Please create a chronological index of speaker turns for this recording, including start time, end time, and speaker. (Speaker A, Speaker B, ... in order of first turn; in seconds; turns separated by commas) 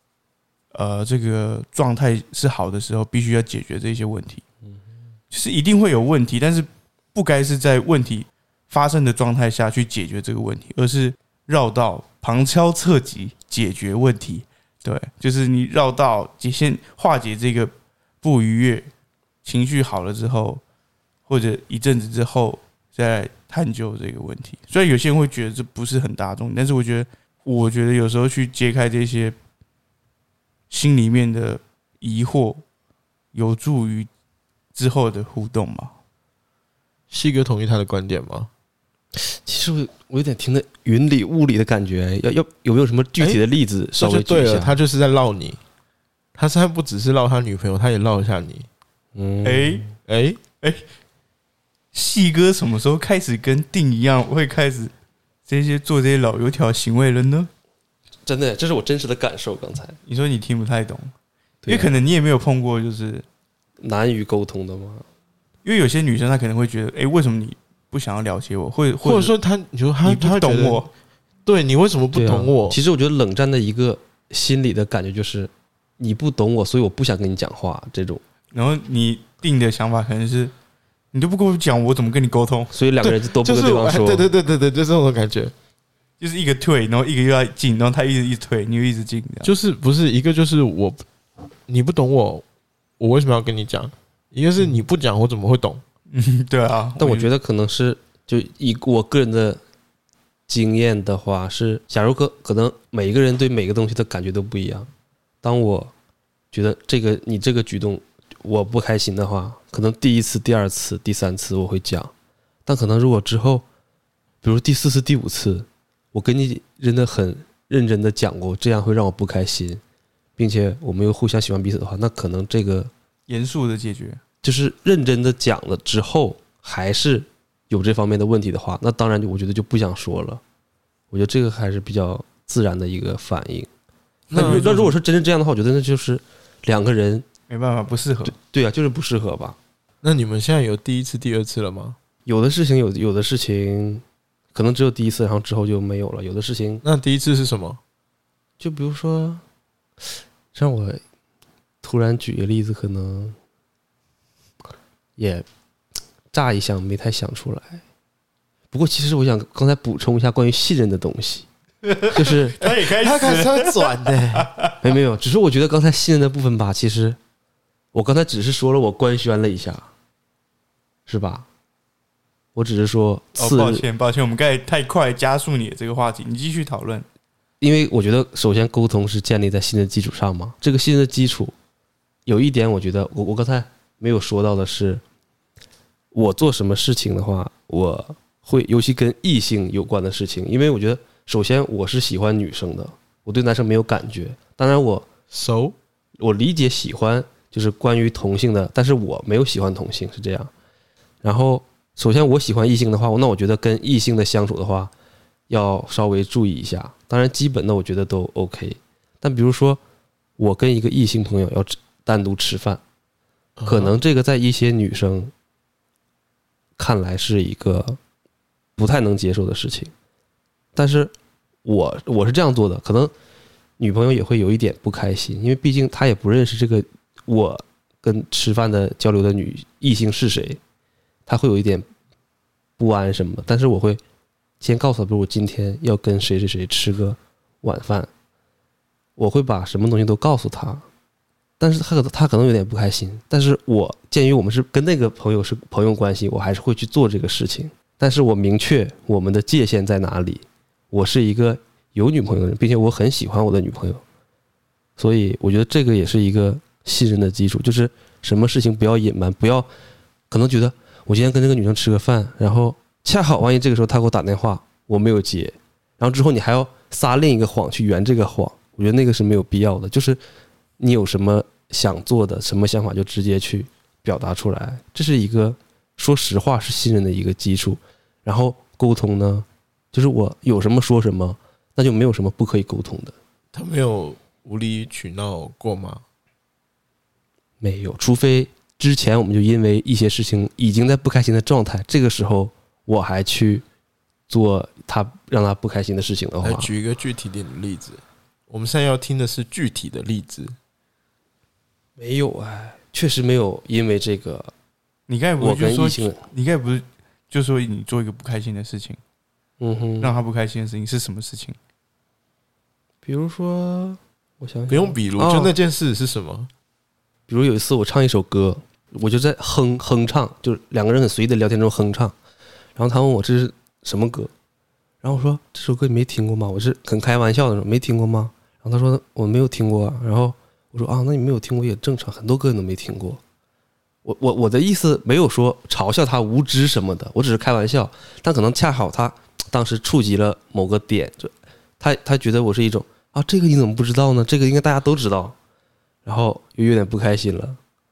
Speaker A: 0.7-4.4, Speaker A: 5.3-18.9, Speaker A: 19.4-20.6, Speaker A: 21.3-29.4, Speaker A: 30.7-32.6, Speaker A: 33.3-34.1, Speaker A: 34.7-35.9, Speaker B: 37.1-38.5, Speaker C: 39.1-44.8, Speaker B: 44.0-45.6, Speaker B: 46.3-48.7, Speaker C: 49.1-49.9, Speaker A: 49.4-49.8, Speaker B: 50.1-50.4, Speaker A: 51.9-54.9, Speaker A: 55.5-57.5, Speaker C: 58.2-60.0, Speaker A: 60.1-61.1, Speaker C: 61.6-61.9, Speaker A: 61.7-63.2, Speaker C: 63.8-65.0, Speaker A: 65.6-69.3, Speaker B: 69.0-70.8, Speaker A: 70.0-70.9, Speaker B: 71.4-72.8, Speaker C: 72.1-78.2, Speaker A: 78.5-80.5, Speaker A: 81.1-82.7, Speaker C: 82.7-84.3, Speaker B: 83.0-85.5, Speaker A: 86.2-89.5, Speaker B: 89.4-91.0, Speaker B: 91.7-92.4, Speaker B: 93.0-95.8, Speaker A: 96.1-97.3, Speaker C: 97.0-99.6, Speaker C: 100.5-104.9, Speaker C: 105.4-105.9, Speaker C: 106.5-112.1, Speaker C: 112.7-113.6, Speaker C: 114.4-119.8, Speaker C: 120.4-122.9, Speaker A: 123.3-124.2, Speaker C: 124.4-130.4, Speaker C: 131.1-133.7, Speaker B: 134.3-134.7, Speaker C: 134.3-137.2, Speaker A: 134.3-134.9, Speaker A: 137.5-138.3, Speaker C: 138.2-139.6, Speaker B: 140.0-142.0, Speaker C: 142.2-144.0, Speaker C: 144.5-146.8, Speaker B: 146.8-147.8, Speaker C: 148.6-149.4, Speaker C: 150.5-151.0, Speaker C: 151.8-153.3, Speaker C: 155.2-155.4, Speaker C: 156.3-157.8, Speaker C: 158.7-161.5, Speaker A: 161.8-164.8, Speaker C: 162.1-162.6, Speaker B: 162.6-164.5, Speaker C: 164.8-167.2, Speaker C: 167.9-169.9, Speaker C: 171.1-171.5, Speaker C: 172.5-173.8, Speaker A: 173.3-177.1, Speaker C: 177.6-181.5, Speaker C: 182.2-185.0, Speaker C: 186.1-195.1, Speaker B: 195.3-195.8, Speaker C: 196.2-200.5, Speaker C: 201.2-204.9, Speaker C: 205.5-209.8, Speaker C: 210.4-212.8, Speaker B: 213.6-214.0, Speaker C: 213.7-215.3, Speaker C: 216.8-218.0, Speaker C: 218.8-219.9, Speaker C: 220.7-221.1, Speaker C: 221.6-223.1, Speaker C: 223.8-230.6, Speaker C: 231.2-231.9, Speaker C: 232.8-234.0, Speaker C: 234.6-238.1, Speaker C: 239.2-240.8, Speaker C: 241.6-254.0, Speaker C: 255.0-259.7, Speaker C: 260.3-270.2, Speaker C: 270.8-283.1, Speaker B: 283.5-286.0, Speaker C: 287.6-293.6, Speaker C: 294.3-296.7, Speaker B: 296.4-300.5, Speaker C: 302.0-304.5, Speaker A: 305.1-309.0, Speaker C: 305.4-306.2, Speaker C: 309.6-310.2, Speaker A: 310.0-311.6, Speaker C: 313.0-315.5, Speaker B: 314.7-316.5, Speaker C: 317.3-322.1, Speaker C: 322.8-324.3, Speaker C: 325.0-333.2, Speaker C: 334.0-345.4, Speaker C: 346.0-347.6